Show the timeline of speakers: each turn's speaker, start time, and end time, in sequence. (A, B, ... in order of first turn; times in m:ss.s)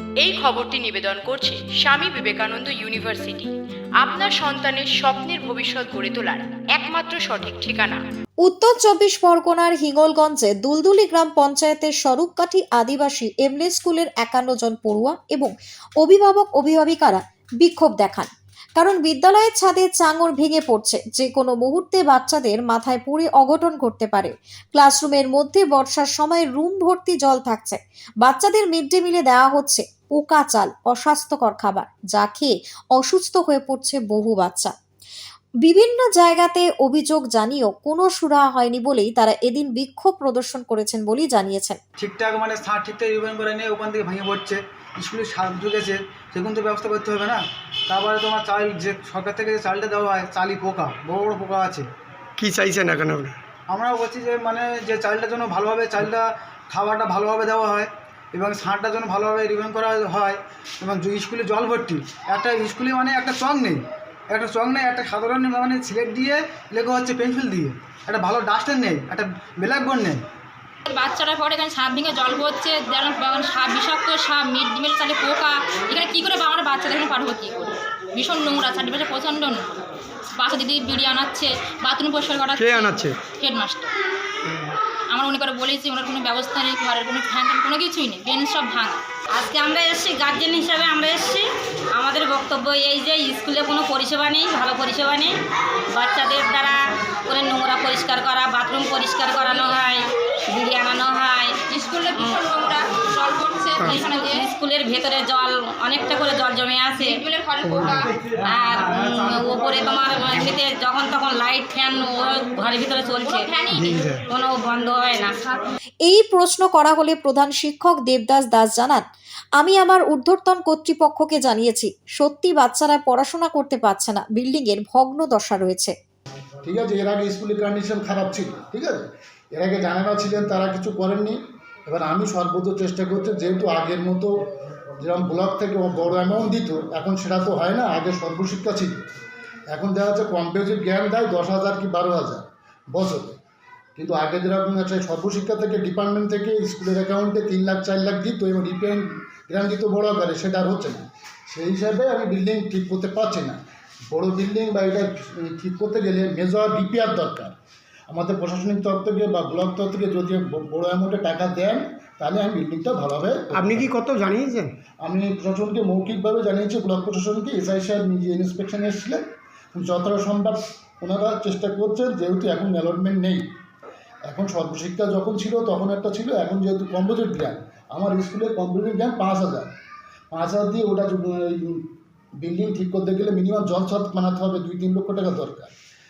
0:00.2-0:03.5 A
0:04.0-0:08.0 A
0:08.4-0:34.7 B
0:35.6-0:41.8 B
0:42.0-0:51.9 C
0:52.4-0:53.4 D
0:53.7-1:10.2 C
1:10.8-1:19.8 E
1:20.4-1:23.9 E
1:22.6-1:23.1 D
1:25.1-1:29.0 E
1:29.3-1:35.3 F
1:35.9-1:41.6 F
1:41.6-1:44.4 E
1:42.2-1:42.7 F
1:43.9-1:47.2 F
1:47.0-1:48.1 E
1:48.4-1:53.5 F
1:53.2-1:54.1 E
1:53.8-1:54.1 D
1:54.3-1:55.3 F
1:56.0-1:59.0 B
1:59.6-2:05.9 B
2:06.6-2:14.3 G
2:15.0-2:19.0 G
2:19.7-2:23.4 G
2:24.0-2:37.5 G
2:38.1-2:43.9 G
2:43.5-2:44.7 D
2:45.0-2:49.2 G
2:49.7-2:53.4 G
2:54.2-2:59.7 G
3:00.3-3:01.8 G
3:02.4-3:05.7 G